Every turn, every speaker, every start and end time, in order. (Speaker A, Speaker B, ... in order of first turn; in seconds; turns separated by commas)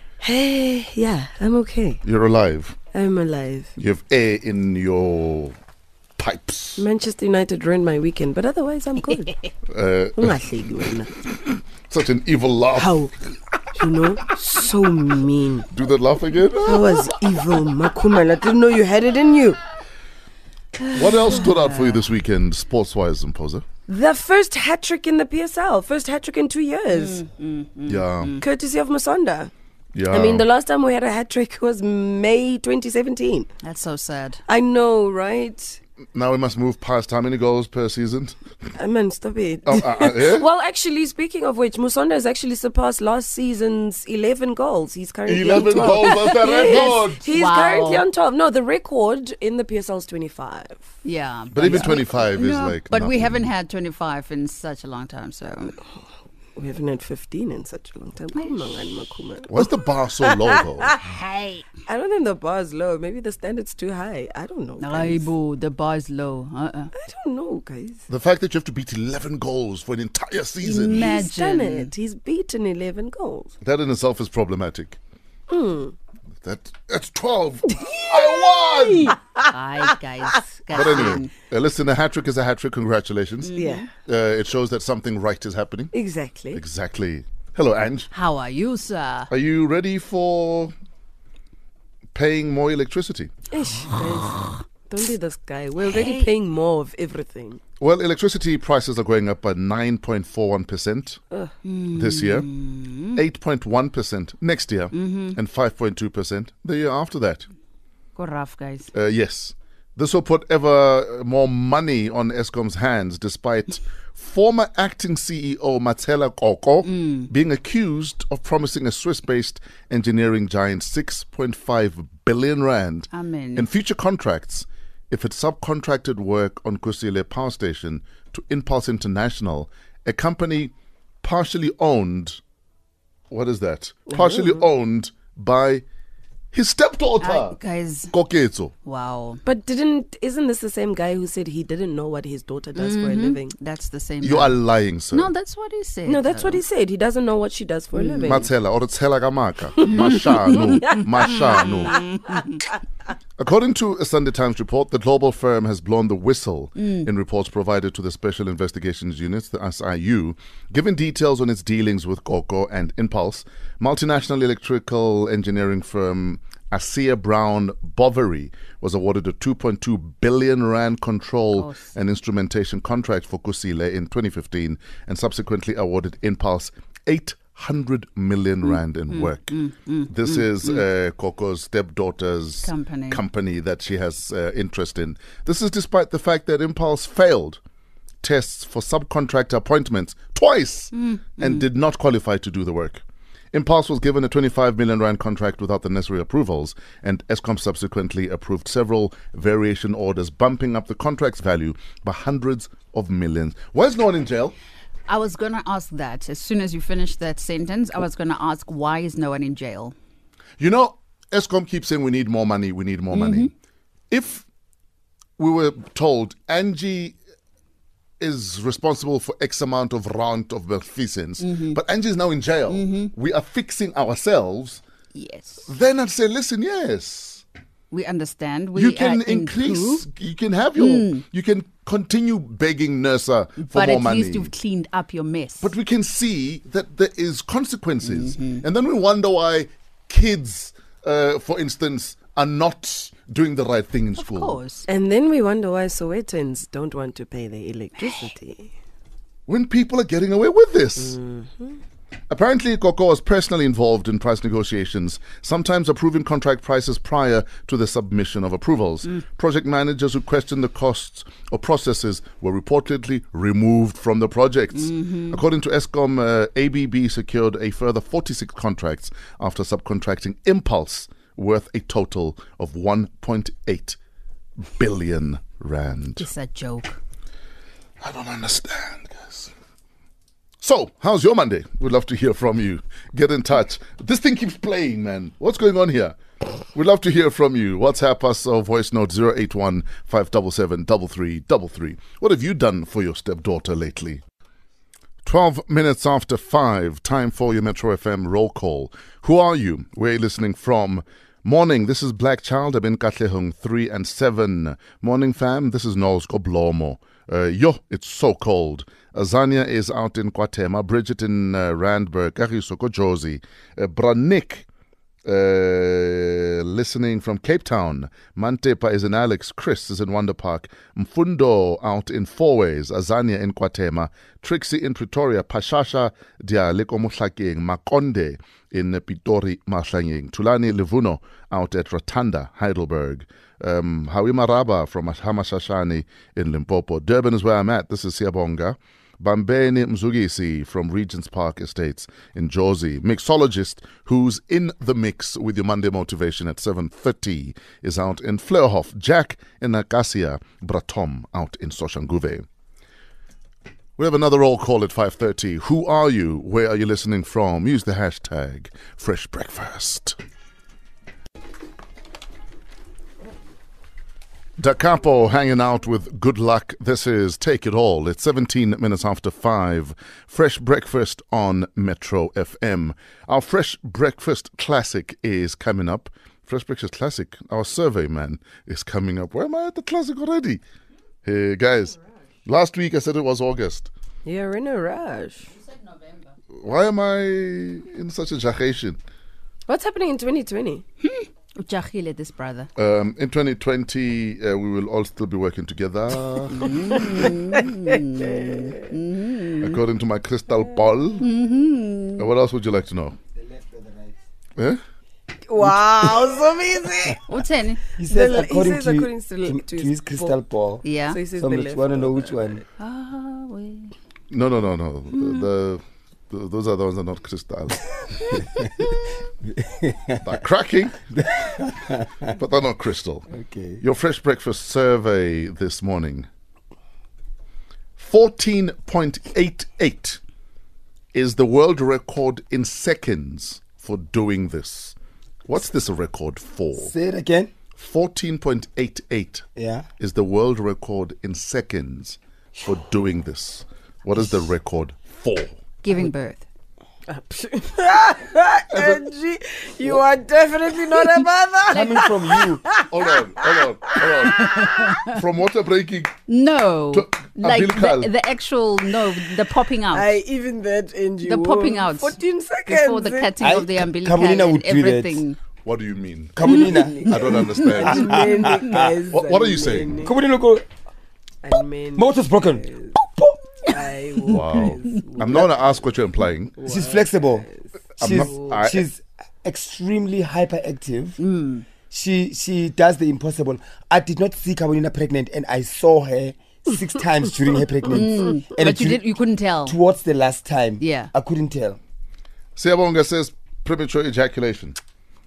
Speaker A: 0.2-2.0, Speaker B: 2.0-2.8, Speaker A: 2.9-3.7, Speaker B: 3.8-5.5, Speaker B: 6.2-6.8, Speaker A: 6.8-9.5, Speaker B: 9.7-10.4, Speaker A: 10.2-11.1, Speaker B: 11.2-13.0, Speaker A: 12.7-13.1, Speaker A: 13.7-15.7, Speaker B: 15.7-17.0, Speaker A: 16.6-19.6, Speaker A: 20.8-21.4, Speaker B: 20.9-23.6, Speaker C: 21.3-22.0, Speaker A: 23.9-27.2, Speaker C: 26.9-28.4, Speaker B: 27.9-28.4, Speaker A: 28.4-29.5, Speaker B: 29.9-30.5, Speaker A: 30.1-33.5, Speaker C: 33.6-34.4, Speaker A: 34.5-35.8, Speaker B: 36.1-38.4, Speaker A: 38.8-50.9, Speaker B: 39.6-40.5, Speaker B: 45.2-47.2, Speaker C: 45.8-48.0, Speaker C: 51.0-55.8, Speaker B: 51.5-53.5, Speaker A: 51.7-52.0, Speaker A: 56.5-59.7, Speaker B: 59.5-61.0, Speaker C: 61.0-61.7, Speaker A: 61.9-65.3, Speaker C: 64.8-66.9, Speaker A: 66.9-68.1, Speaker B: 68.1-71.1, Speaker C: 70.6-71.9, Speaker A: 70.9-73.5, Speaker B: 73.6-75.0, Speaker A: 75.5-75.9, Speaker B: 76.4-79.2, Speaker A: 77.8-79.8, Speaker C: 78.9-81.3, Speaker B: 80.7-85.9, Speaker A: 80.8-81.2, Speaker C: 83.4-83.9, Speaker A: 83.5-83.9, Speaker A: 85.9-86.6, Speaker B: 86.5-88.1, Speaker C: 88.1-89.3, Speaker B: 89.3-90.7, Speaker B: 92.1-93.3, Speaker A: 93.5-97.6, Speaker C: 95.9-96.3, Speaker B: 97.8-101.2, Speaker C: 101.6-103.2, Speaker B: 101.9-102.5, Speaker B: 103.1-107.5, Speaker C: 104.9-105.4, Speaker C: 108.2-108.9, Speaker B: 108.9-132.4, Speaker C: 116.8-117.3, Speaker C: 123.1-123.7, Speaker B: 133.3-135.8, Speaker A: 134.1-134.6, Speaker B: 136.5-137.6, Speaker C: 137.2-138.1, Speaker B: 138.1-138.7, Speaker C: 138.8-139.4, Speaker A: 139.4-143.5, Speaker C: 142.8-144.6, Speaker B: 144.2-145.3, Speaker C: 145.1-146.6, Speaker A: 146.1-148.4, Speaker C: 147.9-148.5, Speaker B: 148.2-152.0, Speaker C: 149.8-152.6, Speaker B: 153.4-187.6, Speaker C: 156.8-157.1, Speaker C: 171.5-171.9, Speaker C: 178.6-180.8, Speaker C: 182.6-183.2, Speaker B: 188.2-204.6, Speaker C: 190.9-191.6, Speaker C: 205.1-209.9, Speaker B: 210.6-213.5, Speaker C: 213.1-213.5, Speaker B: 214.1-214.5, Speaker B: 215.4-217.2, Speaker B: 218.2-224.8, Speaker C: 221.4-221.8, Speaker C: 222.7-223.1, Speaker C: 225.1-225.7, Speaker B: 225.7-227.4, Speaker C: 227.9-230.0, Speaker B: 228.7-234.5, Speaker C: 230.8-231.2, Speaker C: 233.6-235.7, Speaker B: 235.6-244.6, Speaker C: 238.0-238.6, Speaker C: 244.2-244.8, Speaker A: 244.9-248.7, Speaker B: 249.5-251.2, Speaker A: 251.1-251.8, Speaker B: 252.3-274.0, Speaker C: 264.8-265.4, Speaker B: 274.6-276.3, Speaker C: 276.2-277.0, Speaker B: 278.0-279.5, Speaker B: 280.6-286.2, Speaker B: 286.7-294.2, Speaker B: 295.2-314.7, Speaker B: 315.2-352.4, Speaker B: 354.0-360.2, Speaker B: 364.6-380.6, Speaker B: 381.2-383.9, Speaker A: 384.2-385.5, Speaker C: 385.7-386.2, Speaker B: 386.6-389.0, Speaker A: 389.7-390.8, Speaker C: 391.0-392.7, Speaker B: 392.8-396.8, Speaker C: 396.5-399.8, Speaker A: 396.9-398.7, Speaker B: 399.6-401.3, Speaker C: 401.2-402.3, Speaker B: 402.1-403.1, Speaker D: 403.3-404.1, Speaker A: 405.5-407.3, Speaker D: 406.0-406.3, Speaker C: 407.2-407.9, Speaker D: 408.0-412.6, Speaker A: 408.0-410.4, Speaker C: 410.8-411.2, Speaker A: 411.1-412.5, Speaker C: 412.8-413.9, Speaker B: 414.3-418.4, Speaker D: 418.5-418.8, Speaker D: 419.5-420.2, Speaker B: 420.2-421.1, Speaker D: 421.1-422.2, Speaker B: 422.2-423.3, Speaker D: 423.3-423.8, Speaker B: 423.8-426.3, Speaker B: 428.0-430.2, Speaker B: 431.1-434.9, Speaker B: 435.5-436.9, Speaker D: 436.8-437.5, Speaker B: 437.8-439.4, Speaker D: 439.6-439.9, Speaker B: 440.0-445.6, Speaker C: 445.8-446.4, Speaker A: 447.1-454.5, Speaker D: 451.7-452.7, Speaker C: 451.7-452.1, Speaker B: 452.9-456.1, Speaker C: 454.2-455.2, Speaker C: 456.3-460.1, Speaker B: 456.9-458.1, Speaker A: 459.9-463.3, Speaker C: 461.2-465.4, Speaker D: 463.4-465.2, Speaker B: 465.6-468.5, Speaker D: 466.4-469.0, Speaker A: 466.4-470.1, Speaker B: 469.1-469.9, Speaker D: 469.9-470.6, Speaker A: 471.4-472.9, Speaker D: 471.9-473.8, Speaker A: 473.6-475.8, Speaker B: 474.3-476.6, Speaker A: 476.6-478.6, Speaker D: 476.6-477.5, Speaker B: 478.0-478.9, Speaker D: 478.0-481.2, Speaker C: 481.2-481.7, Speaker D: 481.9-489.0, Speaker C: 487.9-489.8, Speaker D: 489.6-491.8, Speaker C: 490.8-491.1, Speaker B: 492.5-494.8